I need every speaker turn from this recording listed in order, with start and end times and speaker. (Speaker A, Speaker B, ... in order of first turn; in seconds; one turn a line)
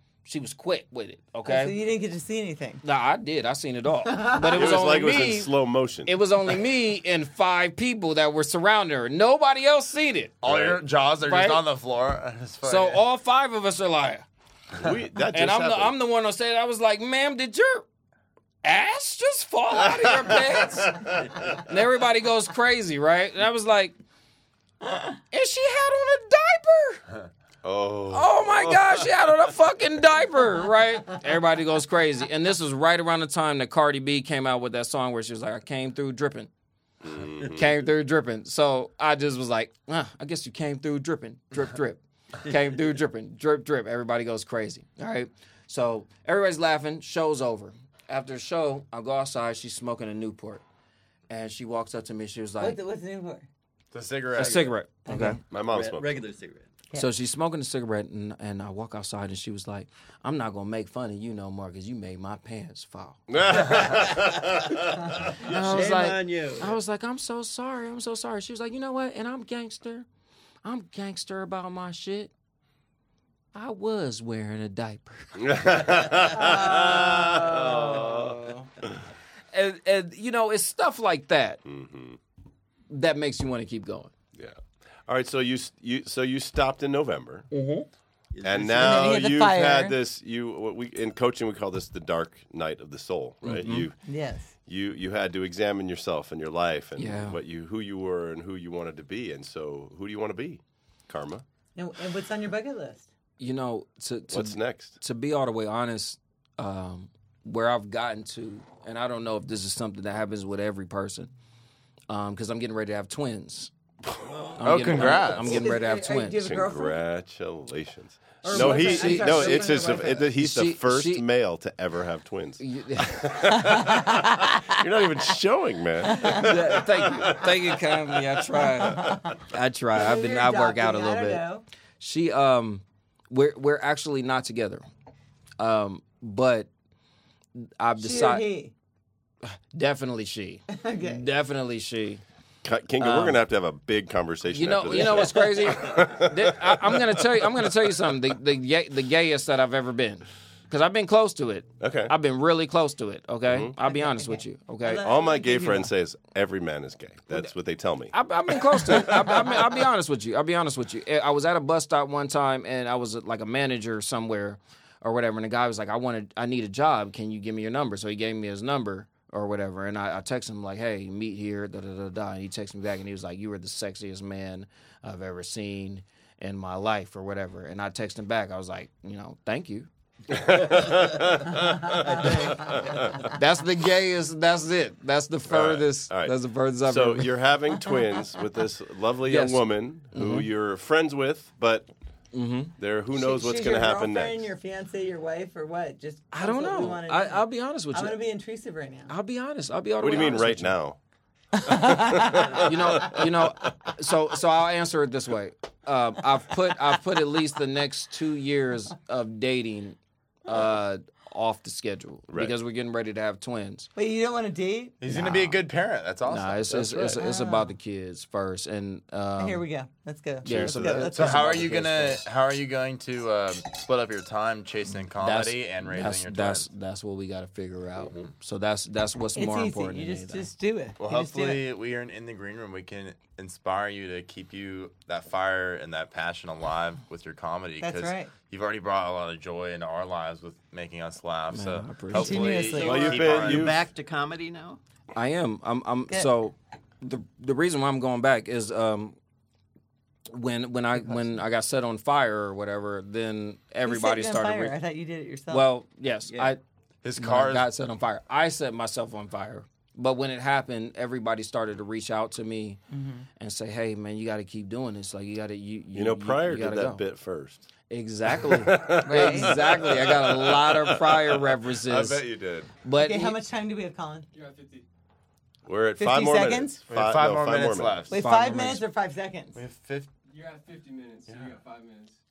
Speaker A: 0.2-1.7
Speaker B: 1.4-2.8
Speaker A: 2.8-5.5
Speaker B: 4.1-4.7
Speaker C: 4.4-6.5
Speaker A: 6.0-10.4
Speaker D: 10.4-13.0
Speaker C: 10.4-10.8
Speaker A: 11.2-11.6
Speaker A: 12.6-14.2
Speaker C: 14.7-15.9
Speaker A: 15.3-17.8
Speaker A: 18.6-24.0
Speaker C: 19.8-21.5
Speaker A: 24.9-27.0
Speaker C: 27.6-29.1
Speaker A: 28.1-36.5
Speaker C: 37.0-37.7
Speaker A: 37.4-50.6
Speaker A: 51.3-52.8
Speaker B: 52.6-53.5
Speaker D: 53.9-54.8
Speaker A: 54.3-55.4
Speaker B: 55.0-55.4
Speaker E: 55.2-56.8
Speaker C: 55.5-56.1
Speaker A: 56.9-63.9
Speaker C: 63.3-65.1
Speaker A: 65.4-70.0
Speaker E: 65.5-66.8
Speaker A: 70.6-72.3
Speaker A: 73.5-78.7
Speaker C: 75.4-78.9
Speaker B: 76.3-76.9
Speaker A: 79.5-81.6
Speaker C: 81.6-82.2
Speaker A: 82.9-84.1
Speaker C: 84.3-87.5
Speaker E: 88.3-89.1
Speaker C: 88.4-94.0
Speaker B: 88.8-89.9
Speaker A: 93.4-93.9
Speaker B: 94.0-94.5
Speaker C: 94.7-101.4
Speaker A: 97.0-97.4
Speaker B: 101.7-103.1
Speaker A: 103.4-111.3
Speaker C: 104.3-105.0
Speaker A: 112.1-113.7
Speaker C: 114.0-115.7
Speaker A: 114.5-116.4
Speaker D: 114.6-115.6
Speaker B: 115.4-117.0
Speaker C: 116.4-129.3
Speaker B: 118.4-120.3
Speaker A: 118.5-121.2
Speaker A: 122.6-124.4
Speaker B: 123.7-124.2
Speaker B: 126.1-126.5
Speaker A: 126.2-131.4
Speaker B: 128.8-129.3
Speaker B: 129.9-131.6
Speaker A: 132.0-134.8
Speaker A: 135.6-136.7
Speaker A: 137.6-138.4
Speaker B: 138.0-138.7
Speaker A: 139.4-142.2
Speaker B: 140.7-141.2
Speaker C: 142.6-148.1
Speaker A: 143.0-143.4
Speaker A: 144.5-155.1
Speaker C: 151.8-152.1
Speaker C: 153.4-153.8
Speaker B: 153.9-155.9
Speaker C: 154.9-159.5
Speaker A: 158.1-179.9
Speaker C: 180.3-183.3
Speaker A: 183.2-187.3
Speaker C: 185.4-191.9
Speaker A: 189.3-190.5
Speaker A: 192.3-192.7
Speaker C: 192.8-194.5
Speaker B: 193.1-199.1
Speaker A: 196.3-198.2
Speaker A: 199.1-200.7
Speaker C: 200.0-201.0
Speaker B: 201.6-202.6
Speaker C: 201.6-203.7
Speaker A: 202.4-213.9
Speaker C: 212.3-212.5
Speaker B: 213.9-214.9
Speaker D: 215.0-217.3
Speaker A: 215.1-215.6
Speaker A: 216.3-219.6
Speaker B: 217.2-217.7
Speaker B: 219.4-221.9
Speaker A: 220.4-222.2
Speaker C: 220.4-221.1
Speaker D: 221.1-226.7
Speaker A: 225.2-230.5
Speaker D: 228.0-228.3
Speaker B: 229.3-231.6
Speaker D: 231.0-243.7
Speaker B: 237.8-238.3
Speaker A: 241.5-242.7
Speaker B: 242.1-243.3
Speaker C: 242.7-243.8
Speaker E: 243.0-244.8
Speaker A: 245.1-249.2
Speaker A: 250.3-254.8
Speaker B: 253.8-255.7
Speaker A: 255.5-256.6
Speaker E: 256.3-256.6
Speaker D: 257.0-257.6
Speaker A: 257.2-262.8
Speaker B: 262.9-263.3
Speaker A: 263.4-267.0
Speaker C: 265.9-267.7
Speaker A: 267.9-272.2
Speaker C: 268.3-272.7
Speaker B: 269.0-269.8
Speaker A: 272.8-273.4
Speaker B: 272.9-274.3
Speaker F: 274.4-274.8
Speaker C: 275.6-278.0
Speaker B: 276.0-276.8
Speaker D: 276.9-278.2
Speaker B: 278.1-279.6
Speaker A: 278.1-278.8
Speaker D: 279.5-280.1
Speaker F: 280.4-282.1
Speaker D: 281.3-281.5